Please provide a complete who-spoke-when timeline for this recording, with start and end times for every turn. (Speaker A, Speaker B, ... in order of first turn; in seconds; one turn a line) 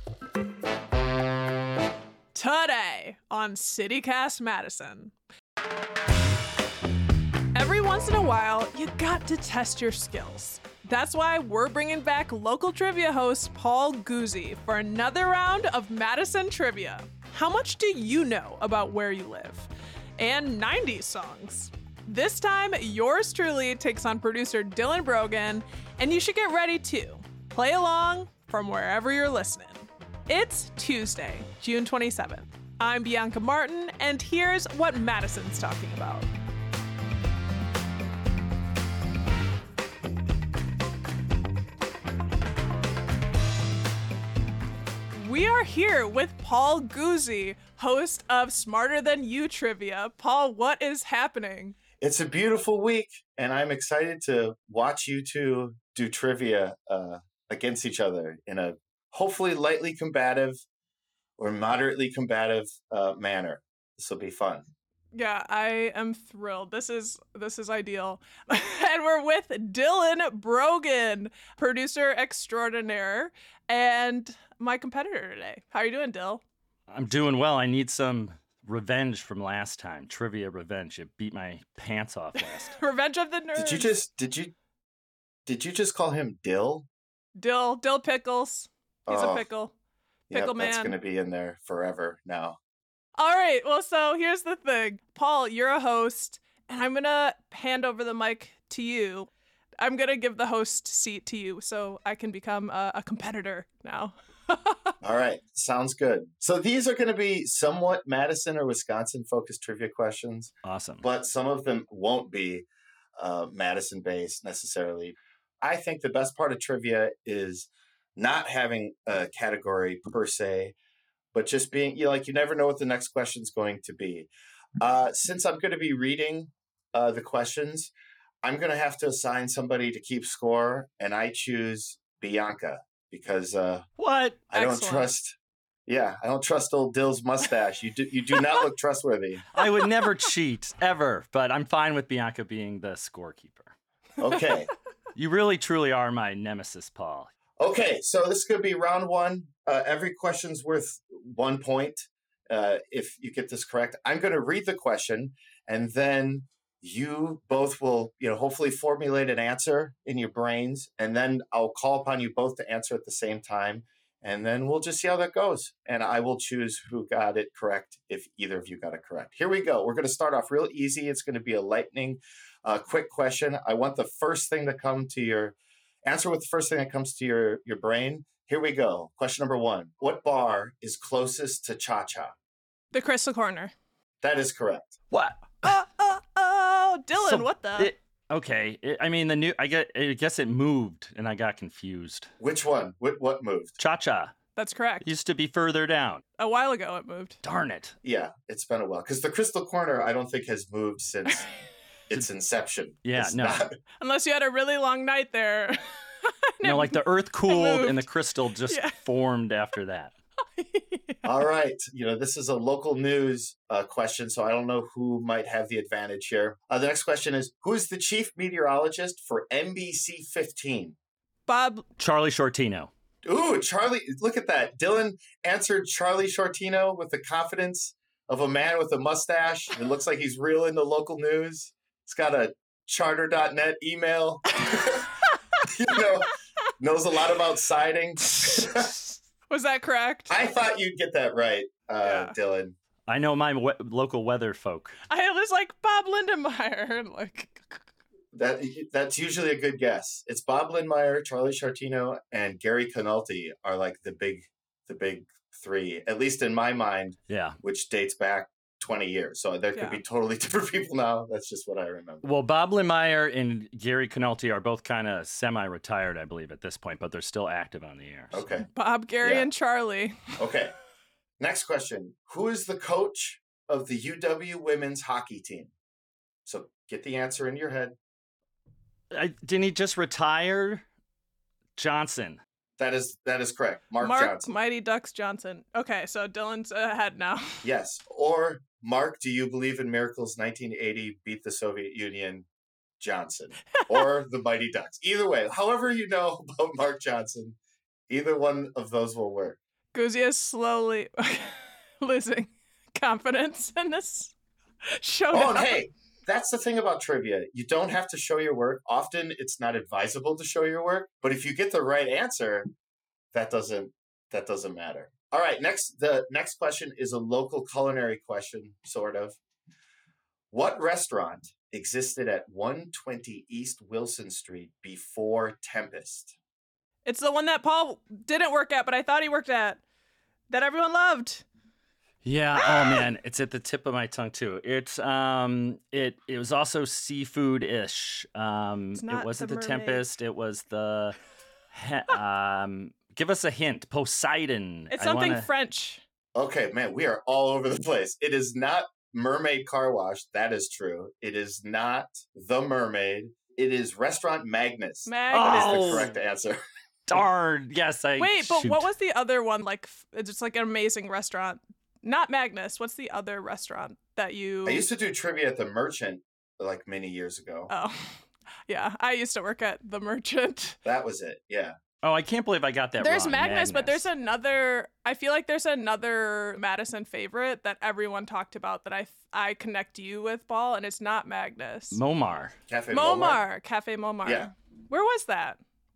Speaker A: 2.3-5.1
Speaker A: 7.5-36.3
Speaker A: 45.2-51.8
Speaker B: 52.0-60.6
Speaker B: 61.4-64.6
Speaker A: 65.1-76.4
Speaker C: 76.9-82.8
Speaker A: 82.6-83.9
Speaker B: 83.6-84.5
Speaker B: 85.5-86.9
Speaker A: 87.4-89.7
Speaker B: 89.1-89.5
Speaker B: 90.3-92.6
Speaker A: 90.3-91.0
Speaker A: 93.2-99.3
Speaker A: 99.8-104.9
Speaker B: 105.0-120.8
Speaker C: 110.7-111.0
Speaker B: 121.3-124.3
Speaker B: 124.8-127.9
Speaker B: 128.4-133.8
Speaker C: 134.0-134.4
Speaker B: 134.5-135.4
Speaker A: 134.5-135.1
Speaker B: 135.9-139.5
Speaker C: 139.5-143.7
Speaker B: 144.2-144.7
Speaker C: 145.2-147.3
Speaker B: 147.6-182.3
Speaker A: 182.9-183.7
Speaker B: 184.2-185.0
Speaker C: 185.1-185.7
Speaker A: 185.6-187.9
Speaker C: 187.1-192.3
Speaker B: 192.4-193.8
Speaker C: 193.8-194.3
Speaker A: 194.6-195.1
Speaker C: 195.0-196.2
Speaker A: 196.4-197.4
Speaker C: 197.4-197.9
Speaker B: 198.0-201.5
Speaker B: 202.1-203.8
Speaker C: 203.0-203.6
Speaker A: 204.0-208.1
Speaker C: 206.6-210.1
Speaker A: 208.7-209.0
Speaker A: 210.6-211.2
Speaker B: 211.2-221.0
Speaker A: 221.5-221.9
Speaker C: 222.0-222.9
Speaker B: 223.2-238.9
Speaker A: 238.4-238.9
Speaker A: 239.5-240.4
Speaker B: 240.3-242.8
Speaker A: 242.0-242.4
Speaker C: 243.1-245.0
Speaker A: 245.1-247.8
Speaker B: 248.3-262.4
Speaker C: 257.3-257.6
Speaker A: 259.7-260.0
Speaker C: 262.2-268.4
Speaker B: 268.3-268.7
Speaker A: 268.7-270.4
Speaker B: 269.2-269.5
Speaker B: 270.4-270.7
Speaker B: 271.4-275.7
Speaker B: 276.5-278.0
Speaker C: 279.1-280.8
Speaker C: 281.8-282.4
Speaker B: 282.8-284.5
Speaker A: 284.0-287.6
Speaker B: 287.6-292.5
Speaker B: 293.0-297.6
Speaker B: 298.1-299.6
Speaker A: 299.9-304.3
Speaker A: 304.9-305.8
Speaker B: 305.3-312.7
Speaker B: 313.3-319.4
Speaker B: 320.5-326.4
Speaker A: 327.1-329.8
Speaker A: 330.5-331.4
Speaker C: 332.2-341.2
Speaker A: 332.6-333.0
Speaker A: 339.0-340.0
Speaker C: 341.7-345.5
Speaker A: 344.9-346.0
Speaker B: 346.4-356.6
Speaker A: 355.1-356.1
Speaker C: 355.3-356.2
Speaker C: 357.1-358.9
Speaker A: 358.2-364.9
Speaker B: 364.6-367.7
Speaker A: 367.7-370.8
Speaker B: 370.8-371.8
Speaker C: 372.0-374.1
Speaker A: 373.0-382.0
Speaker C: 381.9-382.6
Speaker B: 382.7-383.4
Speaker A: 382.9-385.6
Speaker B: 384.2-384.5